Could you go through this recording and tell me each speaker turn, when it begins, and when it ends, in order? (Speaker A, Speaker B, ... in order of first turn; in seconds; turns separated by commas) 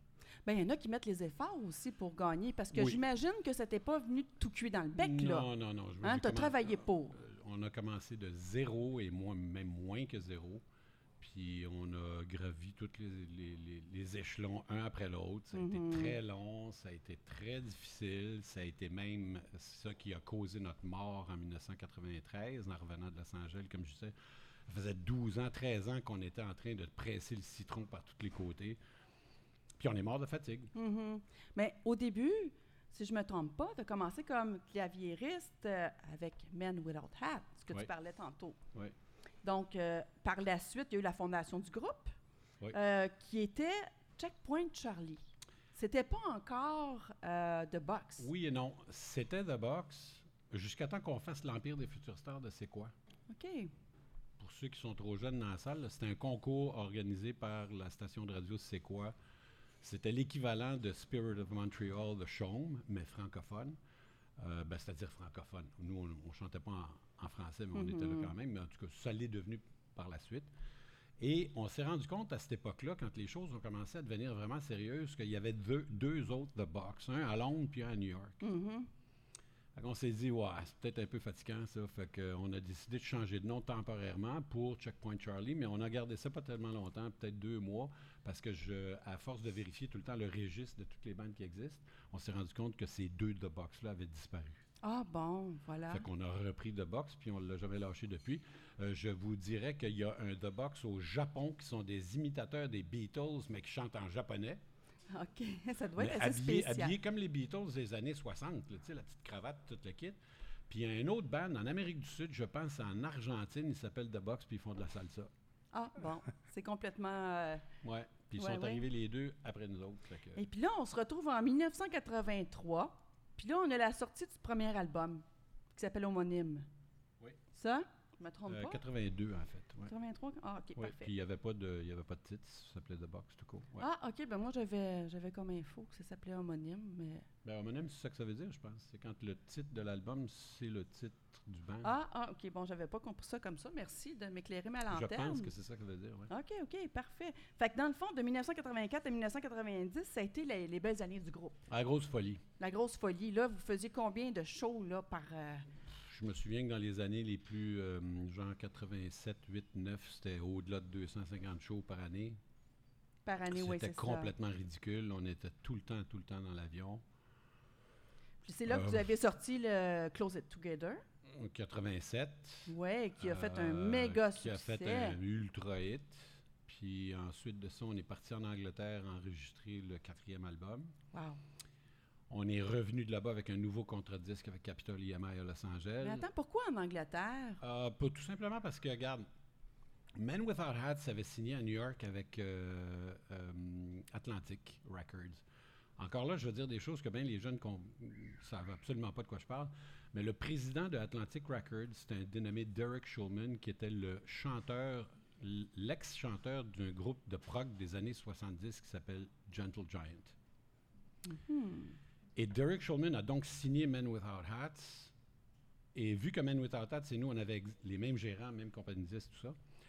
Speaker A: 0.4-5.5, Speaker B: 5.0-10.6, Speaker A: 6.0-7.2, Speaker B: 11.2-24.1, Speaker A: 15.5-16.1, Speaker B: 24.6-28.8, Speaker B: 29.8-30.7, Speaker A: 30.7-38.6, Speaker A: 39.4-42.1, Speaker A: 42.7-48.3, Speaker B: 48.2-52.9, Speaker A: 53.3-53.7, Speaker B: 54.4-59.1, Speaker B: 59.8-63.8, Speaker B: 64.4-70.5, Speaker A: 67.7-68.3, Speaker B: 71.2-78.4, Speaker A: 78.4-78.9, Speaker B: 79.8-94.6, Speaker A: 94.8-96.0, Speaker B: 95.9-104.6, Speaker A: 105.1-106.9, Speaker B: 106.0-115.3, Speaker A: 115.7-117.6, Speaker B: 117.8-120.4, Speaker A: 118.4-118.8, Speaker A: 120.3-125.2, Speaker A: 125.7-126.7, Speaker A: 127.5-128.8, Speaker B: 128.5-129.9, Speaker A: 129.8-131.1, Speaker B: 130.8-133.8, Speaker A: 133.8-137.2, Speaker B: 137.4-141.9, Speaker A: 141.8-145.5, Speaker B: 144.9-146.3, Speaker A: 146.3-151.7, Speaker B: 151.7-152.4, Speaker A: 152.6-155.7, Speaker B: 155.9-162.4, Speaker A: 163.2-164.3, Speaker B: 163.5-167.0, Speaker A: 168.4-171.0, Speaker B: 168.7-169.1, Speaker B: 171.2-180.9, Speaker A: 172.7-175.2, Speaker A: 181.1-181.4, Speaker B: 182.3-186.2, Speaker A: 186.0-187.6, Speaker B: 187.6-189.3, Speaker B: 190.2-195.4, Speaker B: 196.0-210.3, Speaker A: 211.2-212.0, Speaker B: 212.3-215.1, Speaker B: 215.9-219.6